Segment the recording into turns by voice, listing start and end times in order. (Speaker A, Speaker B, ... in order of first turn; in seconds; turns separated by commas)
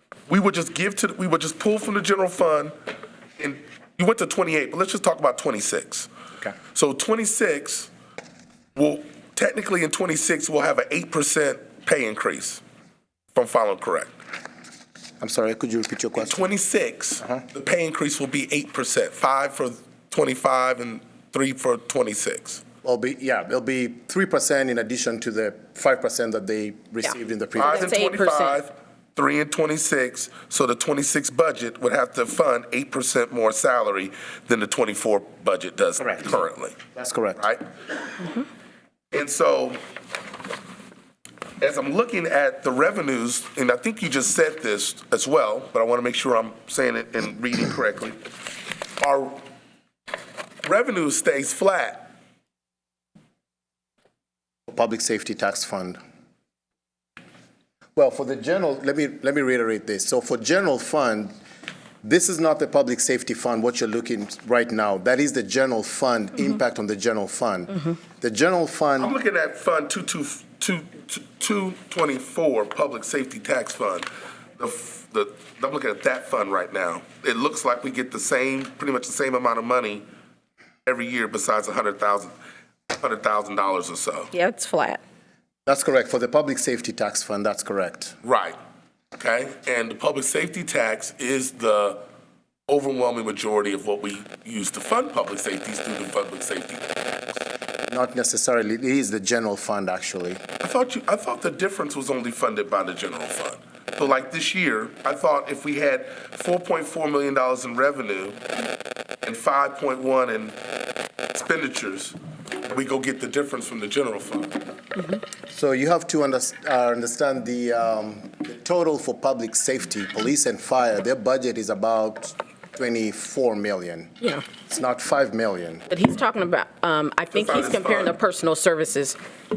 Speaker A: 0.3-2.7, Speaker A: 3.4-6.1, Speaker A: 6.7-7.9, Speaker A: 8.7-12.6, Speaker A: 13.3-14.1, Speaker B: 15.2-16.5, Speaker A: 16.2-22.6, Speaker B: 22.8-27.9, Speaker A: 27.5-36.8, Speaker C: 27.7-28.6, Speaker B: 36.0-36.4, Speaker B: 36.9-37.4, Speaker A: 37.4-37.6, Speaker A: 39.1-39.8, Speaker A: 41.6-48.2, Speaker A: 49.0-49.4, Speaker A: 50.6-52.1, Speaker B: 54.7-56.0, Speaker B: 58.0-61.3, Speaker B: 62.0-69.1, Speaker A: 69.0-74.1, Speaker A: 74.6-80.0, Speaker A: 80.8-82.3, Speaker A: 82.9-84.3, Speaker C: 84.3-85.0, Speaker B: 85.7-88.1, Speaker A: 88.2-88.6, Speaker A: 89.2-92.0, Speaker A: 92.7-96.8, Speaker B: 97.9-100.4, Speaker A: 100.6-108.4, Speaker A: 109.2-110.6, Speaker A: 111.3-114.6, Speaker B: 115.5-125.9, Speaker C: 125.9-129.2, Speaker A: 127.3-128.2